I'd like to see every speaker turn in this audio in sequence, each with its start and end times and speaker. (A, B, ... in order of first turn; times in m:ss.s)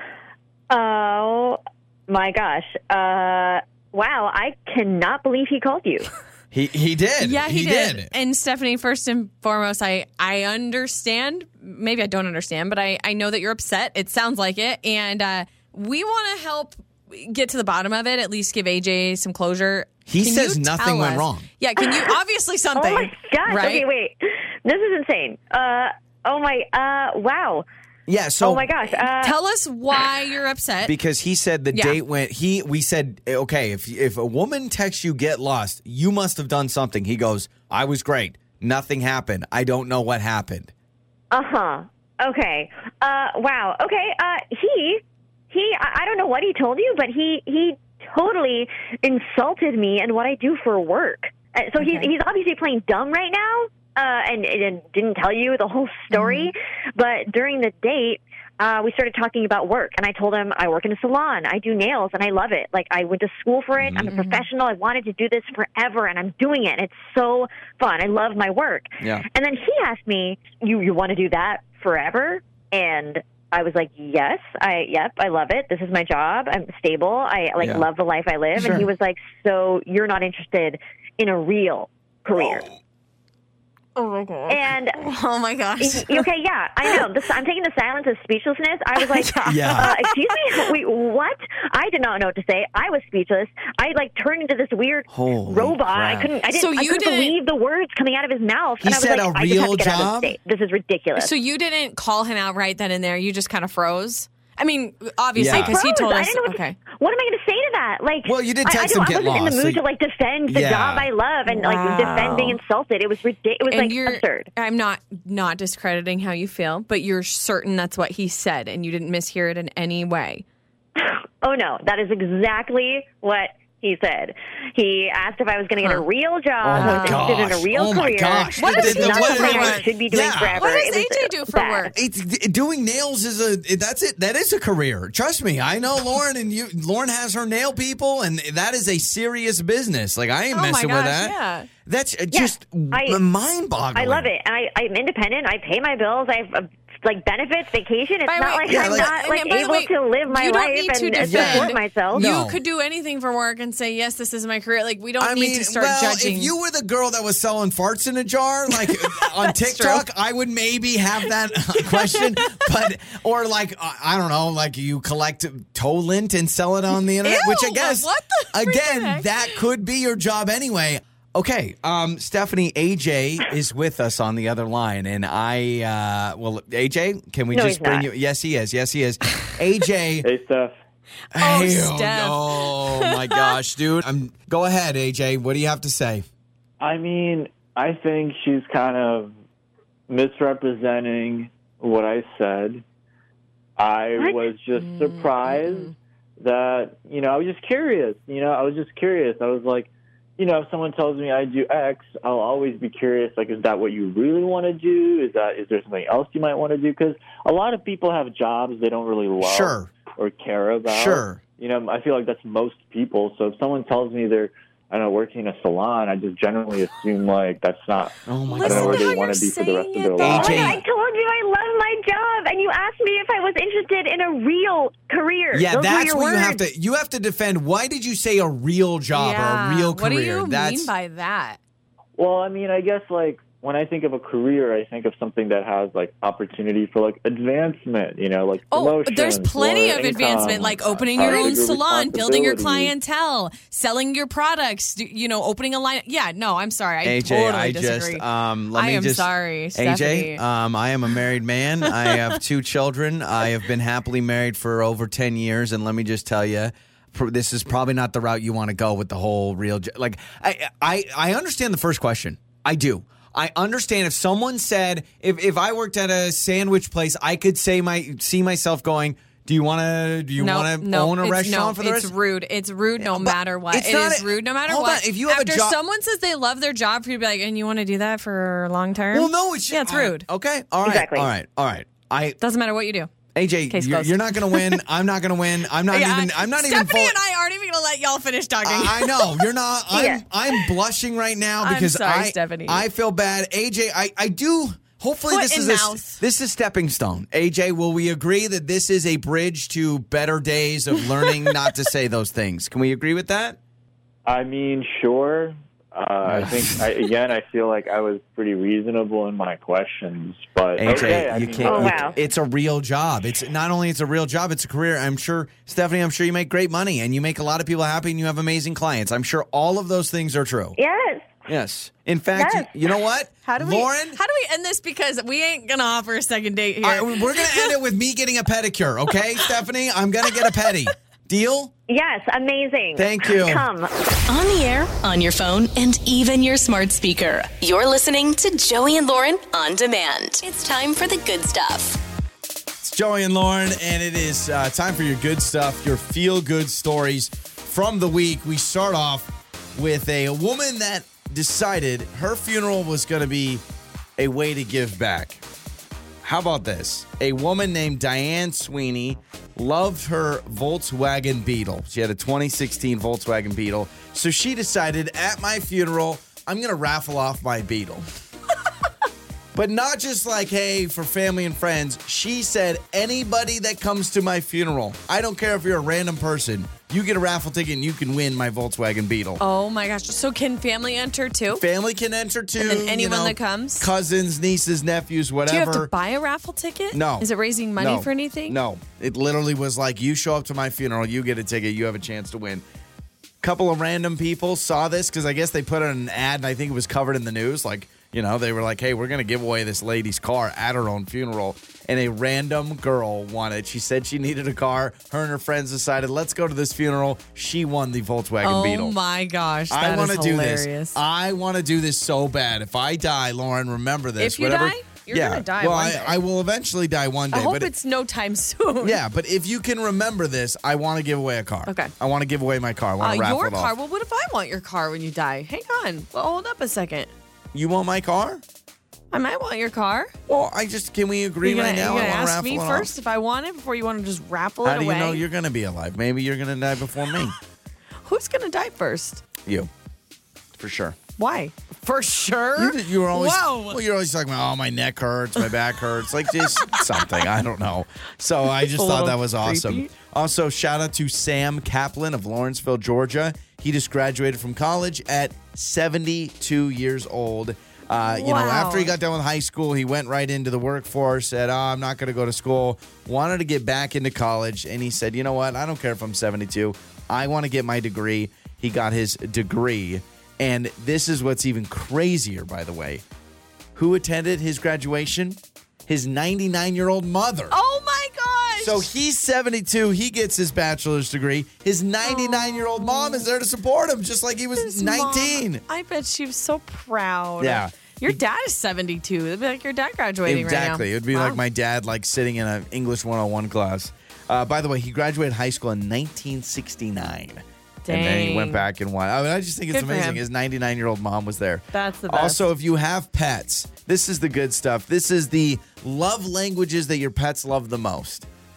0:00.7-0:06.1 A
0:06.5-0:08.1 B
0:07.2-0:23.8 C
0:20.1-0:21.5 B
0:22.8-0:27.6 A
0:28.1-0:28.7 B
0:28.4-0:29.4 A
0:28.9-0:30.9 C
0:30.8-0:40.7 B
0:31.7-0:32.0 C
0:41.3-1:22.6 A
0:51.8-0:52.1 C
0:56.1-0:56.5 C
1:03.8-1:04.1 B
1:04.1-1:04.5 C
1:09.0-1:09.2 B
1:17.6-1:17.9 B
1:18.6-1:18.9 B
1:22.3-1:22.7 B
1:24.0-1:26.3 C
1:24.5-1:25.0 A
1:25.8-1:41.3 A
1:29.0-1:30.8 C
1:29.5-1:29.9 B
1:35.1-1:36.3 B
1:36.5-1:37.4 C
1:38.8-1:40.4 B
1:41.1-1:46.8 C
1:45.4-1:45.8 B
1:45.5-1:54.5 A
1:48.2-1:49.8 B
1:50.5-1:51.1 B
1:51.5-1:52.6 C
1:53.6-2:00.4 C
2:01.0-2:11.9 A
2:06.6-2:10.7 B
2:06.8-2:07.3 C
2:08.6-2:09.9 C
2:10.5-2:11.9 C
2:11.9-2:24.3 B
2:20.5-2:21.7 C
2:22.3-2:23.2 A
2:24.0-2:32.3 A
2:28.2-2:36.5 C
2:28.7-2:29.2 B
2:31.2-2:32.6 B
2:35.2-3:00.3 B
2:38.8-2:40.0 C
2:41.7-2:42.6 C
2:47.2-2:49.6 C
2:57.5-2:58.1 A
3:00.2-3:00.8 D
3:01.3-3:03.6 C
3:01.3-3:06.3 B
3:06.8-3:09.4 D
3:10.1-3:12.8 D
3:13.8-3:40.8 D
3:14.2-3:15.9 C
3:29.4-3:29.9 B
3:30.9-3:31.4 B
3:38.3-3:39.1 B
3:38.4-3:40.8 C
3:40.2-3:40.8 B
3:40.2-3:46.6 A
3:45.5-3:50.9 B
3:49.1-3:51.6 C
3:52.2-4:02.9 D
3:58.7-4:08.2 C
4:01.2-4:01.6 B
4:07.0-4:32.1 B
4:08.8-4:10.4 C
4:11.9-4:12.2 C
4:30.4-4:40.3 C
4:33.0-4:35.8 B
4:39.1-4:42.4 B
4:40.8-4:41.3 A
4:42.4-4:43.1 C
4:43.3-4:47.2 B
4:43.7-4:44.8 C
4:45.9-4:49.5 C
4:48.6-5:03.6 B
4:49.9-4:50.2 A
4:51.6-4:52.8 C
4:55.3-4:56.2 C
5:04.3-5:12.2 D
5:06.2-5:06.9 B
5:10.8-5:20.8 B
5:11.6-5:12.1 A
5:20.8-5:21.4 A
5:21.5-5:24.2 B
5:22.4-5:22.7 A
5:23.4-5:27.7 C
5:26.8-5:31.7 B
5:31.9-5:33.9 A
5:33.0-5:33.6 B
5:34.3-5:42.0 E
5:42.8-5:53.6 B
5:54.2-5:55.4 B
5:56.2-6:08.1 B
6:09.6-6:19.4 B
6:19.4-6:21.6 C
6:21.5-6:25.9 B
6:22.6-6:23.9 C
6:25.5-6:28.6 C
6:26.9-6:32.6 B
6:33.4-6:49.0 B
6:48.4-6:51.0 C
6:49.7-6:57.7 B
6:54.2-6:56.2 C
6:57.3-6:59.0 C
6:58.8-7:03.7 B
7:01.7-7:01.9 C
7:03.0-7:07.1 C
7:07.5-7:08.4 B
7:09.1-7:10.1 C
7:10.3-7:12.9 B
7:11.4-7:15.2 C
7:14.6-7:17.4 B
7:18.1-7:19.2 C
7:19.4-7:19.7 B
7:20.6-7:21.0 B
7:21.2-7:23.8 C
7:22.6-7:53.0 B
7:26.5-7:27.0 C
7:28.5-7:29.9 C
7:38.1-7:38.9 C
7:53.8-7:57.6 B
7:57.5-7:58.9 C
7:58.6-8:05.6 B
8:02.0-8:03.3 C
8:04.6-8:11.4 C
8:07.4-8:08.2 B
8:10.3-8:28.3 B
8:17.9-8:18.6 C
8:19.7-8:20.2 C
8:21.7-8:22.4 C